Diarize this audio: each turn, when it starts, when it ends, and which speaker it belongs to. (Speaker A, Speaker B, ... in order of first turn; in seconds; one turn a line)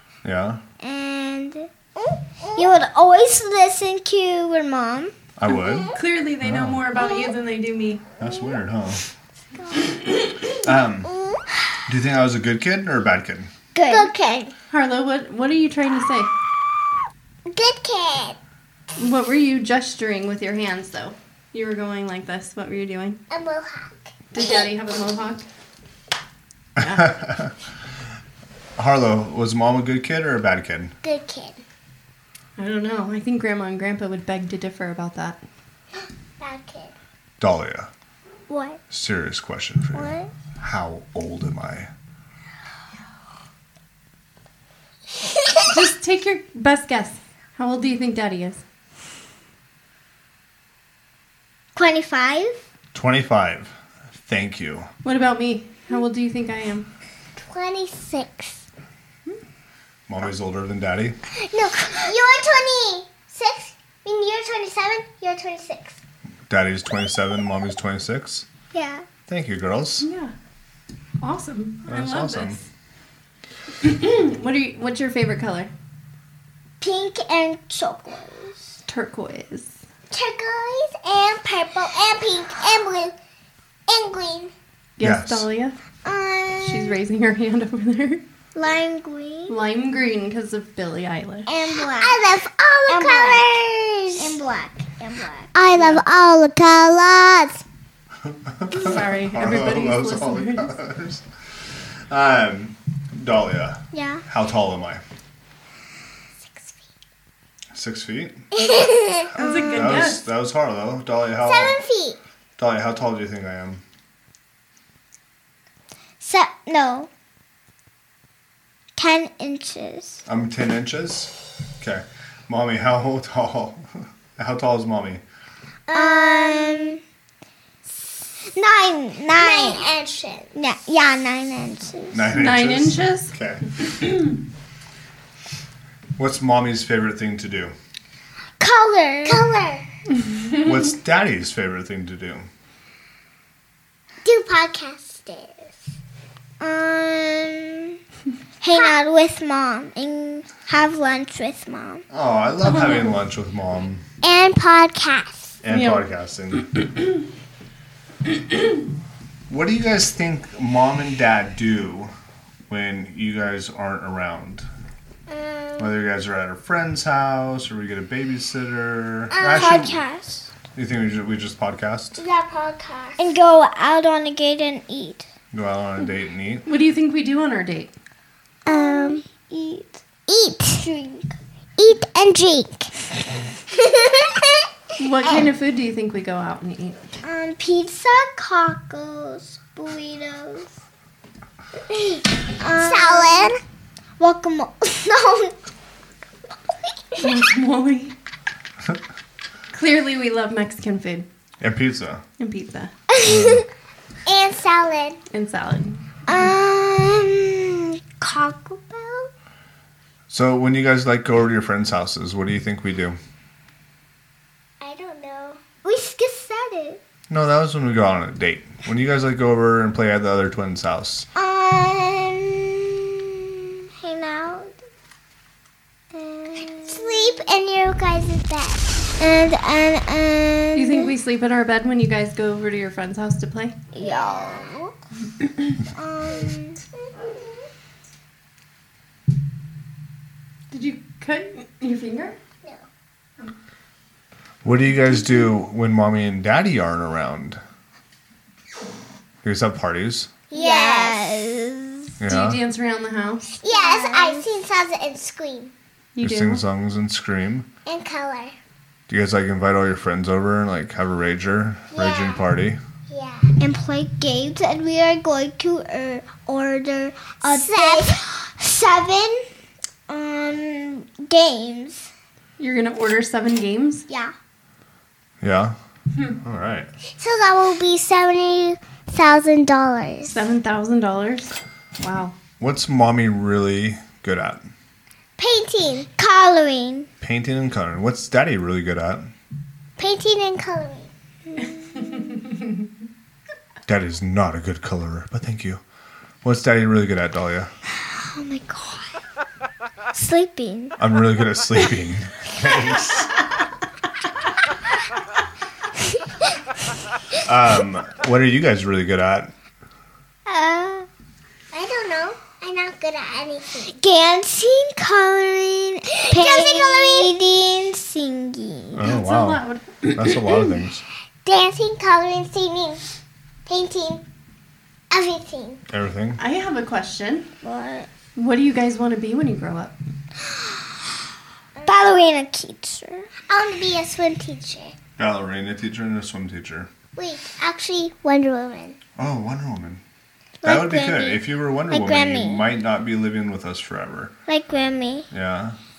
Speaker A: 0.2-0.6
Speaker B: 0.8-1.7
Speaker C: 1.9-2.7
Speaker B: 2.5-5.1
Speaker A: 5.4-6.8
Speaker C: 5.5-6.0
Speaker D: 5.9-8.0
Speaker A: 8.2-9.0
Speaker C: 9.6-10.0
Speaker A: 10.6-11.1
Speaker C: 11.0-11.4
Speaker A: 11.9-13.5
Speaker B: 13.7-14.1
Speaker C: 13.9-14.5
Speaker D: 14.7-16.3
Speaker C: 17.4-18.4
Speaker D: 19.0-23.2
Speaker C: 23.3-24.7
Speaker D: 24.3-25.4
Speaker A: 26.8-27.5
Speaker D: 26.8-27.1
Speaker A: 28.8-30.9
Speaker C: 31.0-31.6
Speaker D: 32.6-35.4
Speaker C: 36.4-36.9
Speaker A: 37.4-37.9
Speaker B: 38.5-38.8
Speaker A: 38.9-41.9
Speaker B: 40.0-40.3
Speaker C: 45.2-45.6
Speaker D: 45.7-48.6
Speaker B: 51.7-52.6
Speaker A: 52.9-54.9
Speaker D: 55.0-56.9
Speaker C: 57.4-58.6
Speaker A: 60.1-61.2
Speaker C: 61.4-66.0
Speaker A: 66.5-68.5
Speaker B: 68.7-69.0
Speaker A: 69.3-70.0
Speaker D: 70.0-70.3
Speaker D: 71.2-72.6
Speaker A: 71.9-72.6
Speaker D: 73.8-75.7
Speaker B: 76.8-78.7
Speaker D: 78.9-79.8
Speaker C: 80.1-83.1
Speaker C: 83.9-84.5
Speaker D: 85.0-85.8
Speaker A: 85.0-85.5
Speaker B: 86.0-87.0
Speaker D: 86.6-88.2
Speaker B: 88.5-89.6
Speaker D: 89.5-91.5
Speaker B: 91.5-92.2
Speaker C: 91.8-94.4
Speaker B: 92.9-93.5
Speaker B: 94.2-95.5
Speaker C: 95.5-97.6
Speaker D: 95.8-96.0
Speaker A: 98.2-101.2
Speaker D: 98.7-100.7
Speaker A: 102.1-105.0
Speaker B: 103.9-104.2
Speaker C: 106.4-106.8
Speaker A: 107.7-108.4
Speaker C: 108.5-109.3
Speaker B: 109.4-110.0
Speaker D: 109.4-110.2
Speaker A: 109.7-111.8
Speaker C: 111.4-112.2
Speaker A: 112.6-113.8
Speaker B: 116.2-117.1
Speaker B: 119.0-120.2
Speaker A: 120.2-125.2
Speaker C: 125.9-127.0
Speaker B: 125.9-127.0
Speaker B: 128.5-129.8
Speaker C: 129.3-130.5
Speaker B: 130.5-132.3
Speaker A: 132.1-133.6
Speaker D: 132.3-133.3
Speaker A: 136.2-137.7
Speaker B: 138.6-139.4
Speaker C: 139.2-139.8
Speaker A: 140.6-142.5
Speaker C: 144.2-145.8
Speaker B: 146.6-148.0
Speaker B: 148.6-152.0
Speaker C: 148.7-149.0
Speaker A: 152.1-154.0
Speaker C: 154.2-155.6
Speaker A: 155.6-156.7
Speaker D: 155.7-156.0
Speaker A: 159.5-162.1
Speaker A: 162.7-164.7
Speaker C: 165.3-165.9
Speaker A: 165.8-170.0
Speaker C: 169.3-170.0
Speaker B: 169.4-170.4
Speaker A: 170.7-172.2
Speaker C: 172.2-173.2
Speaker B: 173.2-175.3
Speaker A: 175.5-176.6
Speaker D: 176.7-177.9
Speaker C: 178.7-179.2
Speaker B: 178.7-180.0
Speaker C: 180.3-181.2
Speaker C: 181.8-182.9
Speaker C: 183.7-184.7
Speaker D: 185.0-187.0
Speaker B: 187.2-190.7
Speaker C: 191.9-193.6
Speaker B: 192.6-193.5
Speaker B: 194.2-195.5
Speaker D: 197.2-198.1
Speaker D: 199.7-201.3
Speaker A: 201.6-202.2
Speaker D: 202.4-202.9
Speaker B: 203.2-203.6
Speaker A: 203.2-203.6
Speaker C: 204.2-205.2
Speaker D: 205.3-206.2
Speaker B: 206.3-209.3
Speaker A: 210.3-213.2
Speaker C: 214.8-215.7
Speaker B: 215.8-217.0
Speaker A: 217.3-221.3
Speaker B: 221.3-224.7
Speaker B: 226.1-227.3
Speaker C: 226.6-228.9
Speaker B: 229.2-231.1
Speaker D: 230.7-233.8
Speaker B: 233.9-234.9
Speaker C: 234.0-234.8
Speaker B: 235.9-236.8
Speaker C: 236.3-237.6
Speaker D: 240.7-242.4
Speaker A: 244.6-247.6
Speaker A: 249.4-250.3
Speaker C: 250.5-251.3
Speaker B: 250.5-252.2
Speaker A: 252.2-252.6
Speaker D: 252.3-253.4
Speaker C: 253.5-255.7
Speaker B: 253.6-254.5
Speaker D: 256.1-256.6
Speaker A: 256.2-257.7
Speaker C: 257.9-258.6
Speaker A: 259.1-262.8
Speaker C: 261.9-262.4
Speaker C: 263.1-263.6
Speaker B: 263.6-269.5
Speaker C: 267.4-268.2
Speaker B: 270.1-272.1
Speaker D: 272.6-274.1
Speaker A: 275.4-275.8
Speaker A: 276.3-276.9
Speaker C: 277.1-280.4
Speaker D: 280.3-282.4
Speaker A: 282.6-284.7
Speaker C: 285.4-286.1
Speaker B: 286.2-287.1
Speaker A: 287.2-289.3
Speaker C: 290.0-291.1
Speaker B: 291.5-292.4
Speaker A: 293.9-295.8
Speaker A: 296.4-297.7
Speaker B: 298.1-299.1
Speaker B: 300.1-301.0
Speaker A: 301.0-303.4
Speaker A: 307.4-309.5
Speaker B: 310.4-311.1
Speaker C: 311.7-314.0
Speaker B: 313.9-319.0
Speaker C: 316.2-317.3
Speaker A: 318.9-321.0
Speaker D: 319.0-320.4
Speaker C: 321.4-323.0
Speaker C: 323.6-324.2
Speaker C: 325.1-325.8
Speaker A: 325.9-326.4
Speaker D: 326.4-327.5
Speaker B: 327.6-328.1
Speaker D: 328.4-329.9
Speaker B: 331.8-333.3
Speaker C: 333.5-334.9
Speaker A: 335.2-336.9
Speaker C: 337.1-339.0
Speaker A: 339.2-340.0
Speaker B: 340.6-342.6
Speaker A: 340.6-344.3
Speaker B: 344.5-345.3
Speaker A: 345.3-345.8